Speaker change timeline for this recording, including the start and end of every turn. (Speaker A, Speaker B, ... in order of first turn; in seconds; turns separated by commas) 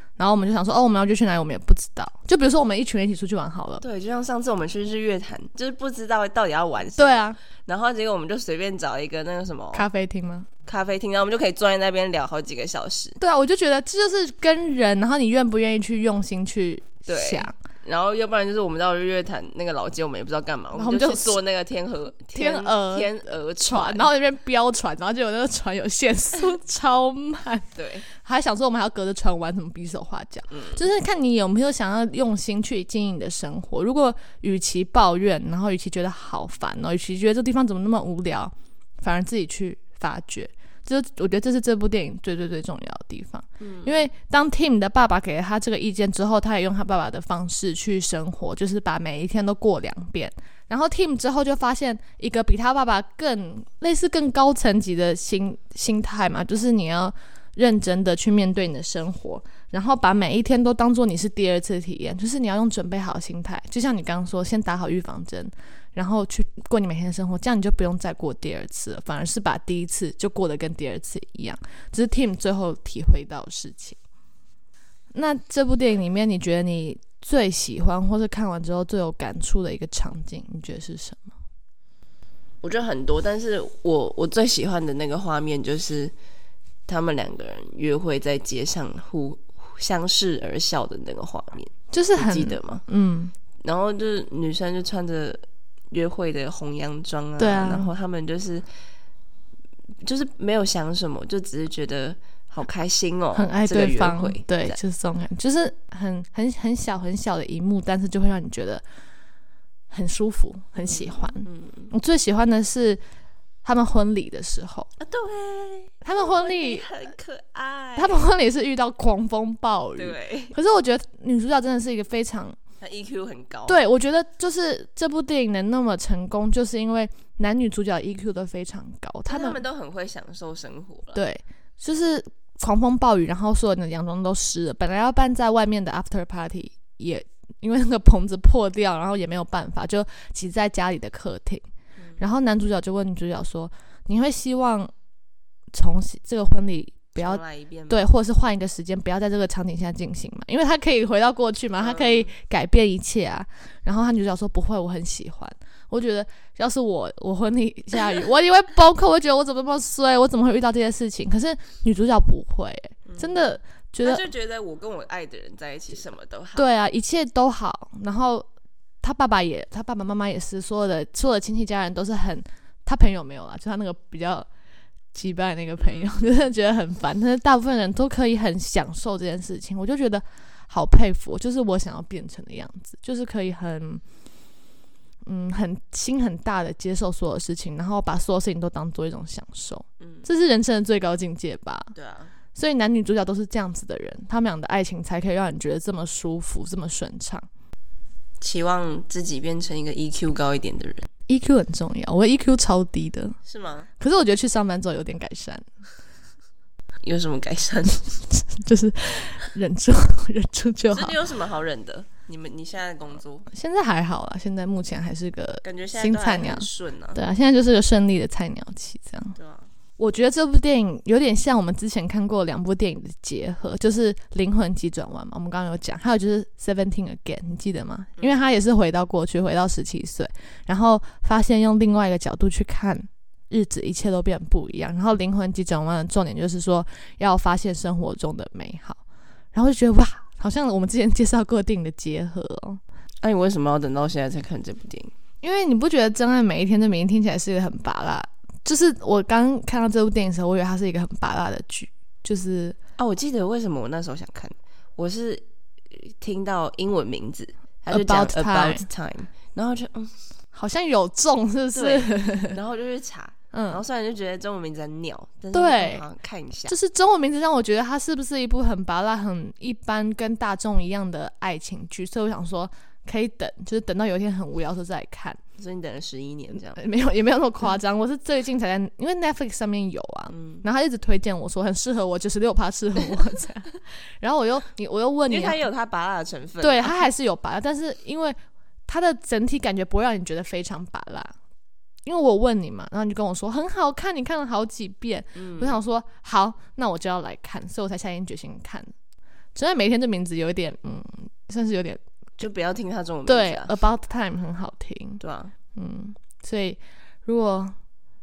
Speaker A: 0.2-3.8, Speaker B: 3.8-9.9, Speaker A: 7.0-7.4, Speaker A: 9.7-10.5, Speaker B: 10.6-13.2, Speaker A: 13.2-17.5, Speaker B: 17.1-24.1, Speaker A: 20.7-21.4, Speaker A: 22.4-74.0, Speaker B: 27.8-28.0, Speaker B: 30.5-30.8, Speaker B: 43.6-44.0, Speaker A: 75.1-81.3, Speaker B: 82.6-86.1, Speaker B: 86.9-92.8, Speaker A: 91.9-93.3, Speaker B: 93.6-98.6, Speaker A: 97.4-97.9, Speaker B: 100.0-104.8, Speaker A: 103.3-108.8, Speaker A: 109.9-113.0, Speaker B: 110.8-111.9, Speaker A: 113.6-114.9, Speaker B: 115.0-118.3, Speaker A: 116.0-116.9, Speaker A: 118.0-122.6, Speaker B: 120.0-120.5, Speaker B: 122.8-123.8, Speaker A: 123.7-129.6, Speaker B: 129.3-131.2, Speaker A: 131.1-141.6, Speaker A: 142.2-144.9, Speaker A: 145.7-164.2, Speaker B: 147.1-148.0, Speaker B: 151.8-152.3, Speaker B: 163.1-166.7, Speaker A: 166.6-168.5, Speaker A: 169.0-174.5, Speaker A: 175.1-184.0, Speaker B: 175.8-176.4, Speaker A: 185.2-191.9, Speaker B: 190.0-190.2, Speaker B: 191.9-192.3, Speaker A: 192.5-197.4, Speaker B: 198.4-201.1, Speaker A: 201.3-203.4, Speaker B: 203.4-203.9, Speaker A: 204.0-205.7, Speaker B: 207.0-208.2, Speaker A: 208.3-211.2, Speaker B: 210.9-213.5, Speaker A: 213.5-219.4, Speaker B: 215.6-217.2, Speaker B: 219.4-219.7, Speaker A: 220.0-239.0, Speaker B: 228.2-228.4, Speaker A: 239.5-242.8, Speaker B: 243.2-245.1, Speaker A: 245.4-252.8, Speaker B: 253.0-260.1, Speaker A: 257.9-258.9, Speaker A: 260.5-262.6, Speaker B: 261.7-266.8, Speaker A: 263.5-263.8, Speaker A: 265.5-266.0, Speaker A: 266.7-275.4, Speaker B: 275.6-276.8, Speaker A: 276.5-285.6, Speaker B: 280.3-280.6, Speaker B: 285.3-287.0, Speaker A: 286.6-288.4, Speaker A: 288.9-291.3, Speaker A: 292.0-298.9, Speaker B: 295.4-295.8, Speaker A: 299.5-302.0, Speaker B: 302.4-303.8, Speaker A: 303.2-305.2, Speaker B: 305.2-305.5, Speaker A: 305.7-307.8